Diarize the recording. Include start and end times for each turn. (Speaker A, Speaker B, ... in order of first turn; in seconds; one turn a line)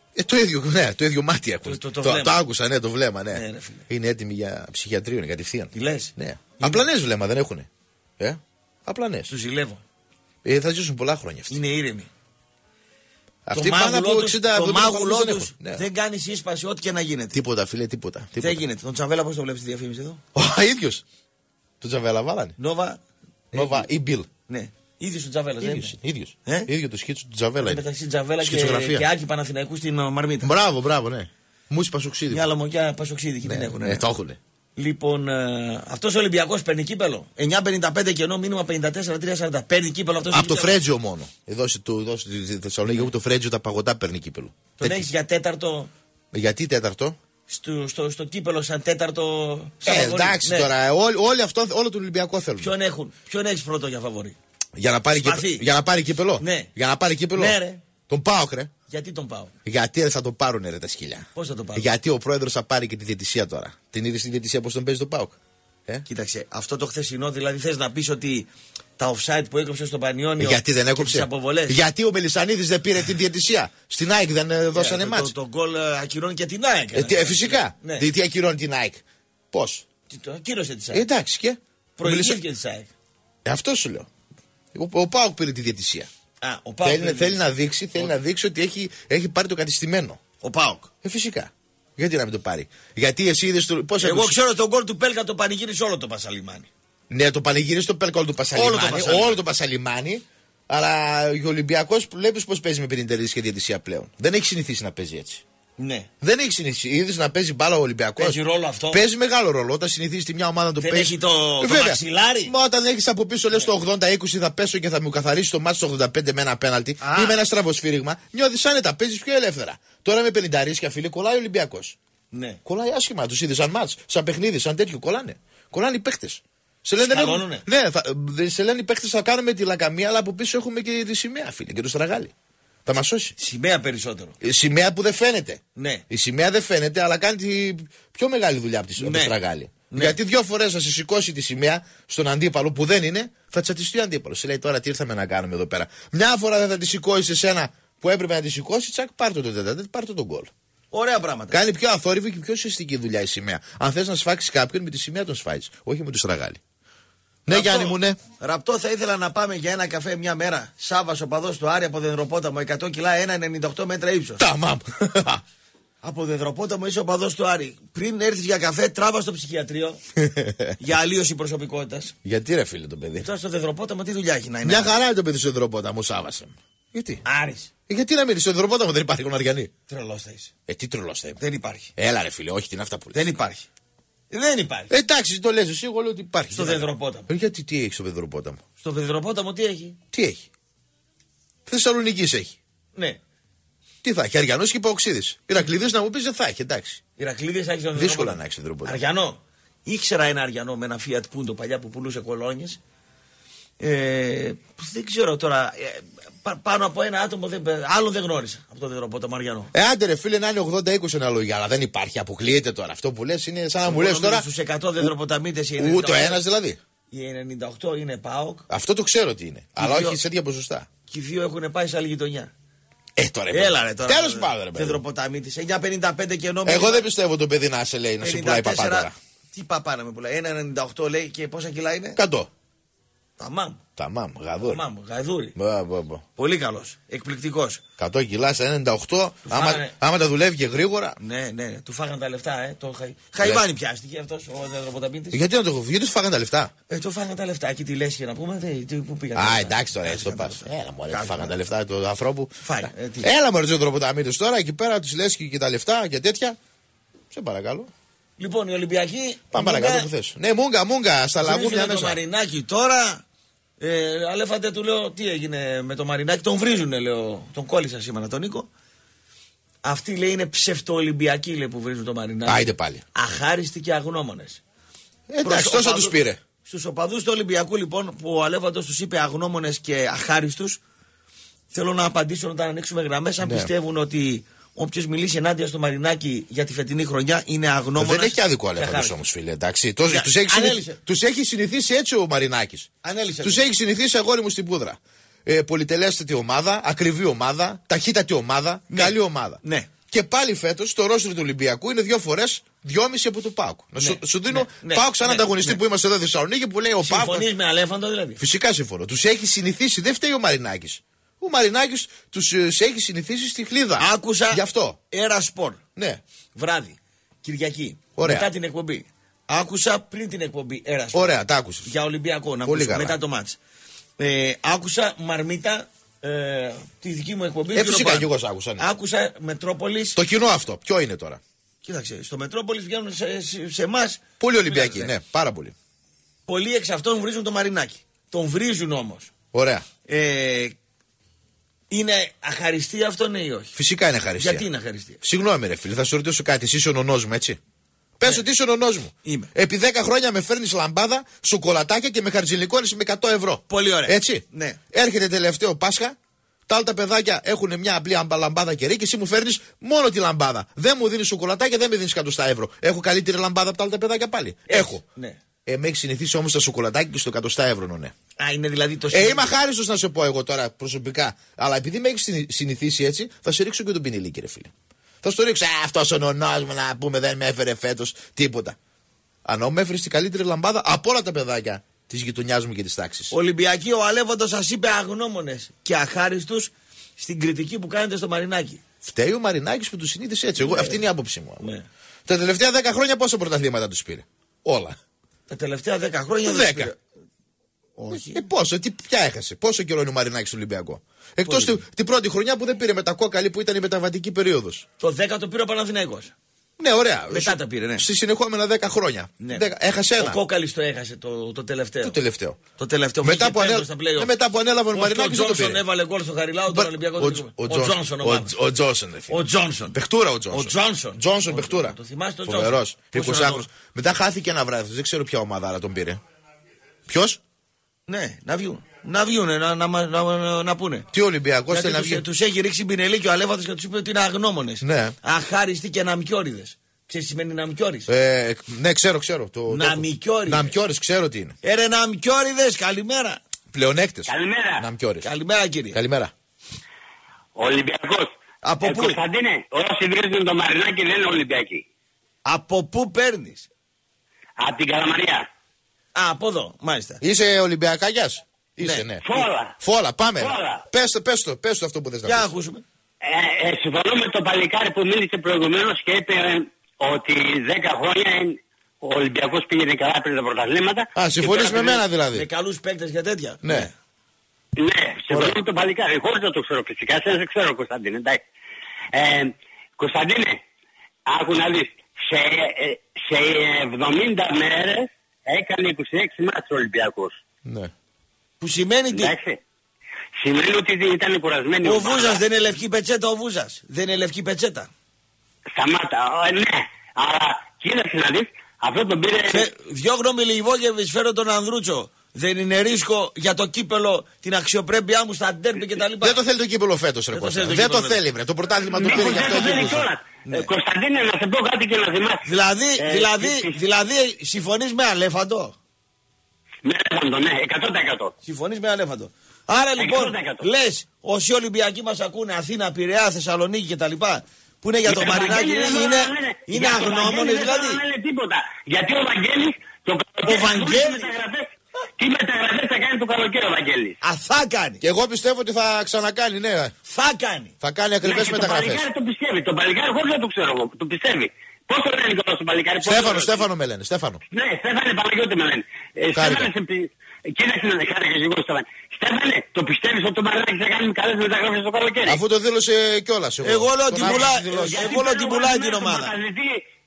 Speaker A: 0.1-7.7
Speaker B: 1.6-2.4
Speaker B: 3.3-3.9
Speaker B: 5.7-6.8
Speaker A: 8.2-9.3
Speaker B: 9.3-9.8
Speaker A: 10.4-11.6
Speaker B: 11.5-12.1
Speaker A: 13.4-15.8
Speaker B: 13.5-17.4
Speaker A: 17.3-18.6
Speaker B: 18.4-20.2
Speaker A: 20.3-21.0
Speaker A: 21.8-22.5
Speaker B: 22.6-23.0
Speaker B: 23.5-23.9
Speaker A: 23.5-24.3
Speaker B: 24.5-25.9
Speaker A: 25.6-27.8
Speaker B: 27.6-30.5
Speaker A: 28.4-29.1
Speaker A: 30.4-32.5
Speaker B: 32.3-34.0
Speaker A: 33.5-34.4
Speaker B: 34.8-40.8
Speaker A: 40.3-45.1
Speaker B: 44.8-45.9
Speaker A: 46.3-47.1
Speaker B: 47.5-50.7
Speaker A: 49.8-52.7
Speaker B: 52.6-54.4
Speaker A: 54.8-57.6
Speaker B: 55.2-55.6
Speaker B: 56.4-56.7
Speaker B: 57.3-57.8
Speaker A: 58.1-58.7
Speaker B: 58.9-59.5
Speaker A: 59.6-66.0
Speaker B: 61.3-61.9
Speaker B: 66.1-68.5
Speaker B: 69.0-71.8
Speaker A: 70.4-75.3
Speaker B: 74.7-78.0
Speaker A: 76.9-79.8
Speaker B: 80.1-81.0
Speaker A: 80.9-82.4
Speaker B: 82.0-82.9
Speaker A: 83.4-84.1
Speaker A: 84.7-86.1
Speaker B: 86.4-87.4
Speaker A: 86.8-90.2
Speaker B: 90.4-90.9
Speaker A: 91.0-94.4
Speaker B: 94.0-96.7
Speaker A: 97.1-105.4
Speaker B: 98.5-99.4
Speaker B: 105.8-106.1
Speaker A: 106.2-108.4
Speaker B: 108.2-109.0
Speaker A: 108.9-122.0
Speaker B: 110.8-112.5
Speaker B: 117.0-117.4
Speaker B: 122.3-122.6
Speaker A: 122.6-132.3
Speaker B: 127.0-127.6
Speaker A: 132.8-133.3
Speaker B: 133.4-134.3
Speaker A: 134.4-150.5
Speaker B: 135.8-136.0
Speaker B: 139.0-139.3
Speaker B: 139.9-140.2
Speaker B: 150.9-151.6
Speaker A: 151.5-156.6
Speaker A: 157.4-158.2
Speaker B: 157.5-164.4
Speaker A: 164.4-165.4
Speaker B: 166.0-170.0
Speaker A: 170.2-170.7
Speaker B: 170.8-172.1
Speaker A: 172.2-173.3
Speaker B: 173.2-174.9
Speaker A: 174.6-177.2
Speaker B: 177.2-177.7
Speaker A: 177.9-179.7
Speaker B: 179.9-180.5
Speaker A: 180.7-181.4
Speaker B: 181.4-181.9
Speaker A: 182.0-183.3
Speaker B: 183.1-183.7
Speaker B: 184.3-184.9
Speaker A: 184.9-188.6
Speaker B: 186.5-187.3
Speaker B: 188.8-190.0
Speaker A: 190.1-190.4
Speaker A: 191.7-192.6
Speaker A: 194.0-197.0
Speaker B: 197.2-202.8
Speaker A: 197.9-199.0
Speaker B: 203.8-209.7
Speaker A: 209.7-214.5
Speaker B: 213.8-216.4
Speaker A: 215.8-216.8
Speaker B: 217.1-218.6
Speaker A: 218.7-220.9
Speaker B: 219.8-220.2
Speaker B: 221.1-222.5
Speaker A: 223.2-225.0
Speaker B: 223.5-227.1
Speaker A: 226.6-229.1
Speaker B: 228.2-232.2
Speaker A: 232.2-232.5
Speaker B: 233.4-233.8
Speaker A: 234.0-234.8
Speaker B: 234.6-235.5
Speaker A: 235.6-236.2
Speaker B: 236.4-237.8
Speaker A: 238.0-241.2
Speaker B: 239.5-239.9
Speaker B: 241.2-245.4
Speaker A: 245.3-246.7
Speaker B: 246.9-251.5
Speaker A: 249.3-256.6
Speaker B: 252.6-253.3
Speaker A: 257.3-257.9
Speaker B: 258.4-260.1
Speaker A: 259.5-262.2
Speaker B: 261.4-263.2
Speaker B: 263.8-268.7
Speaker B: 269.8-274.6
Speaker A: 272.4-273.0
Speaker A: 275.3-276.4
Speaker B: 275.4-280.8
Speaker B: 281.7-289.2
Speaker A: 283.4-283.7
Speaker A: 288.0-299.6
Speaker B: 290.1-291.0
Speaker B: 293.0-293.6
Speaker B: 298.9-299.9
Speaker A: 300.1-307.5
Speaker B: 304.0-305.8
Speaker B: 307.0-308.4
Speaker A: 308.4-315.0
Speaker B: 314.0-315.8
Speaker A: 315.9-316.2
Speaker B: 316.5-323.6
Speaker A: 318.2-318.5
Speaker A: 321.1-321.9
Speaker A: 322.6-323.2
Speaker B: 324.2-330.2
Speaker A: 327.7-328.8
Speaker A: 330.1-331.4
Speaker B: 331.8-335.1
Speaker A: 334.4-335.7
Speaker B: 336.5-339.3
Speaker A: 339.5-339.8
Speaker B: 340.1-340.7
Speaker B: 341.9-343.7
Speaker A: 343.8-344.6
Speaker B: 344.4-345.2
Speaker A: 345.2-347.6
Speaker A: 348.2-356.1
Speaker B: 349.2-349.5
Speaker B: 353.7-354.8
Speaker A: 356.7-365.0
Speaker B: 364.7-365.4
Speaker A: 365.6-368.1
Speaker B: 368.4-369.5
Speaker A: 369.1-374.7
Speaker A: 375.2-378.8
Speaker A: 379.4-383.3
Speaker B: 383.3-388.8
Speaker A: 389.0-391.7
Speaker B: 390.6-391.0
Speaker B: 391.6-391.9
Speaker A: 392.2-395.0
Speaker B: 395.5-397.0
Speaker A: 396.4-396.9
Speaker B: 398.0-398.4
Speaker A: 398.1-404.8
Speaker B: 401.4-401.8
Speaker B: 405.0-406.3
Speaker A: 406.8-410.4
Speaker B: 407.3-408.0
Speaker B: 409.4-412.1
Speaker A: 412.0-412.6
Speaker B: 412.8-414.3
Speaker A: 413.2-415.8
Speaker B: 414.9-418.5
Speaker A: 416.7-426.2
Speaker B: 419.3-419.9
Speaker B: 420.5-423.6
Speaker A: 427.1-427.4
Speaker B: 428.1-431.1
Speaker A: 431.1-432.2
Speaker B: 431.7-438.1
Speaker A: 434.8-435.1
Speaker A: 438.1-441.5
Speaker B: 439.7-440.7
Speaker B: 441.6-443.4
Speaker A: 443.7-445.3
Speaker C: 444.3-444.8
Speaker B: 445.2-446.0
Speaker A: 445.9-446.3
Speaker C: 447.6-451.8
Speaker B: 448.6-449.2
Speaker B: 452.4-453.7
Speaker C: 454.6-455.5
Speaker B: 456.1-457.2
Speaker A: 457.2-462.5
Speaker B: 458.8-459.1
Speaker C: 459.2-459.7
Speaker C: 460.4-460.8
Speaker B: 462.2-462.8
Speaker C: 463.2-471.1
Speaker A: 471.1-472.4
Speaker B: 471.4-473.9
Speaker A: 473.6-473.9
Speaker C: 474.8-478.4
Speaker A: 475.3-475.6
Speaker C: 479.1-480.6
Speaker C: 481.3-487.4
Speaker A: 487.6-487.9
Speaker B: 488.6-489.3
Speaker C: 489.1-489.6
Speaker C: 490.4-492.4
Speaker B: 491.8-494.9
Speaker C: 495.8-499.6
Speaker B: 499.5-506.4
Speaker A: 506.2-510.1
Speaker B: 507.3-508.2
Speaker B: 509.0-510.6
Speaker C: 509.0-512.5
Speaker B: 512.5-515.8
Speaker C: 513.0-513.8
Speaker C: 516.8-518.3
Speaker B: 518.4-528.0
Speaker C: 520.0-520.6
Speaker C: 525.0-534.2
Speaker B: 530.5-531.3
Speaker B: 534.2-535.0
Speaker A: 535.0-536.9
Speaker B: 537.1-537.7
Speaker A: 537.8-539.0
Speaker C: 538.2-543.6
Speaker A: 543.0-544.4
Speaker C: 544.5-552.4
Speaker A: 546.3-546.7
Speaker A: 552.2-555.1
Speaker B: 553.6-556.3
Speaker C: 554.1-556.8